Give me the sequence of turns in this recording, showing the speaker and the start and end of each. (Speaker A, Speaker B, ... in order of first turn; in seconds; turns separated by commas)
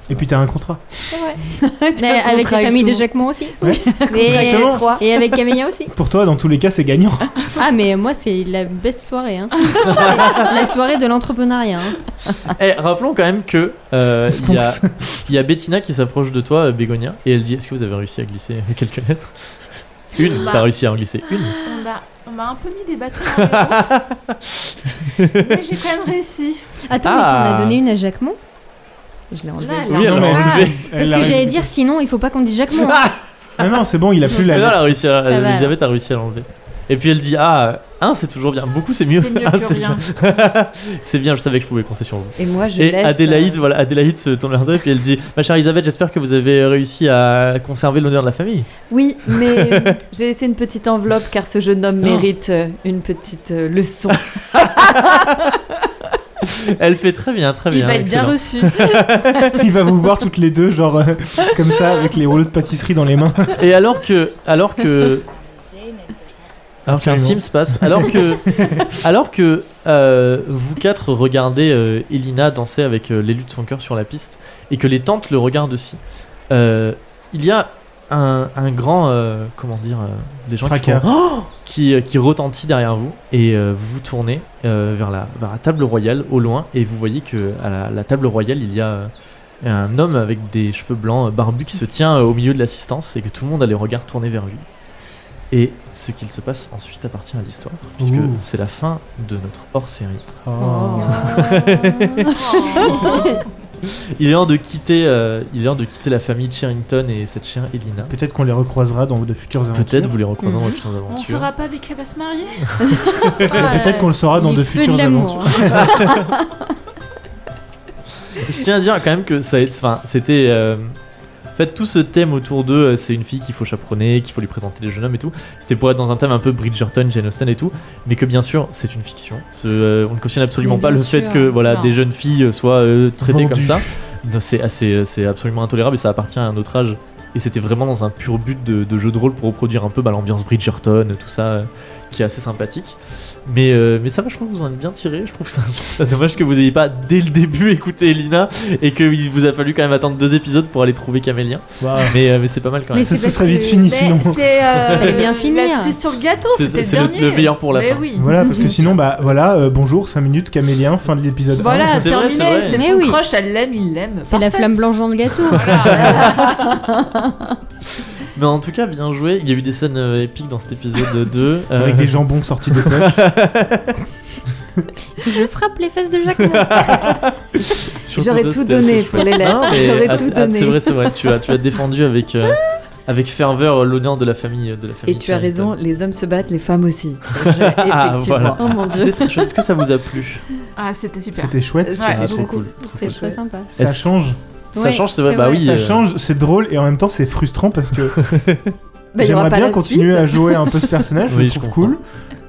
Speaker A: 0.1-1.2, Speaker B: 1.1-1.4, Speaker C: 1.4-5.2, Speaker B: 1.9-5.9, Speaker A: 3.6-4.9, Speaker A: 5.9-7.5, Speaker B: 7.5-12.1, Speaker D: 9.8-10.6, Speaker D: 12.5-21.6, Speaker A: 14.2-15.2, Speaker E: 20.3-20.7, Speaker E: 21.6-23.9, Speaker D: 23.4-25.6, Speaker E: 25.4-26.7, Speaker B: 26.9-28.4, Speaker D: 27.0-27.8, Speaker C: 29.3-30.3, Speaker E: 29.6-30.3, Speaker A: 29.9-31.7, Speaker D: 29.9-30.9, Speaker B: 30.3-33.1, Speaker D: 32.8-33.1, Speaker A: 33.6-34.9, Speaker B: 34.3-35.8, Speaker D: 34.3-48.7, Speaker E: 39.1-40.1, Speaker C: 42.4-43.6, Speaker C: 48.9-55.4, Speaker D: 49.4-49.9, Speaker D: 54.5-55.5, Speaker D: 56.4-59.6, Speaker E: 57.7-59.0, Speaker A: 59.5-63.6, Speaker D: 63.5-65.3, Speaker A: 66.8-68.9, Speaker D: 66.8-89.1, Speaker A: 80.6-81.1, Speaker D: 89.6-94.7, Speaker D: 95.5-100.3, Speaker A: 98.0-98.4, Speaker A: 100.4-101.4, Speaker B: 100.6-103.4, Speaker D: 100.9-103.2, Speaker E: 102.3-103.4, Speaker D: 103.8-108.1, Speaker A: 108.1-110.2, Speaker D: 109.7-111.5, Speaker B: 110.4-110.8, Speaker E: 111.1-112.9, Speaker B: 112.9-116.2, Speaker A: 113.5-116.2, Speaker D: 115.8-116.2, Speaker D: 118.4-121.0, Speaker D: 121.5-153.2, Speaker B: 130.6-131.6, Speaker E: 131.6-132.0, Speaker A: 133.2-133.8, Speaker A: 151.8-152.2, Speaker B: 152.9-153.9, Speaker A: 153.1-154.4, Speaker E: 153.8-158.4, Speaker B: 154.9-155.9, Speaker D: 156.5-159.0, Speaker A: 158.2-162.2, Speaker B: 158.4-158.7, Speaker E: 161.6-164.7, Speaker D: 161.9-162.8, Speaker B: 162.7-163.2, Speaker B: 164.3-166.3, Speaker E: 165.4-166.8, Speaker D: 165.6-166.5, Speaker C: 166.1-167.5, Speaker D: 168.0-172.2, Speaker A: 171.8-173.2, Speaker D: 172.7-174.0, Speaker B: 175.2-177.2, Speaker D: 176.3-185.7, Speaker C: 178.1-181.2, Speaker C: 185.1-189.5, Speaker D: 187.4-190.4, Speaker E: 190.8-192.4, Speaker A: 191.3-192.1, Speaker C: 191.8-193.4, Speaker D: 192.1-193.2, Speaker B: 193.0-193.7, Speaker D: 193.8-194.0, Speaker A: 193.8-194.4, Speaker D: 194.7-196.1, Speaker B: 194.7-195.7, Speaker A: 195.6-198.4, Speaker D: 198.2-198.7, Speaker C: 199.1-200.7, Speaker A: 199.2-202.0, Speaker D: 201.3-201.9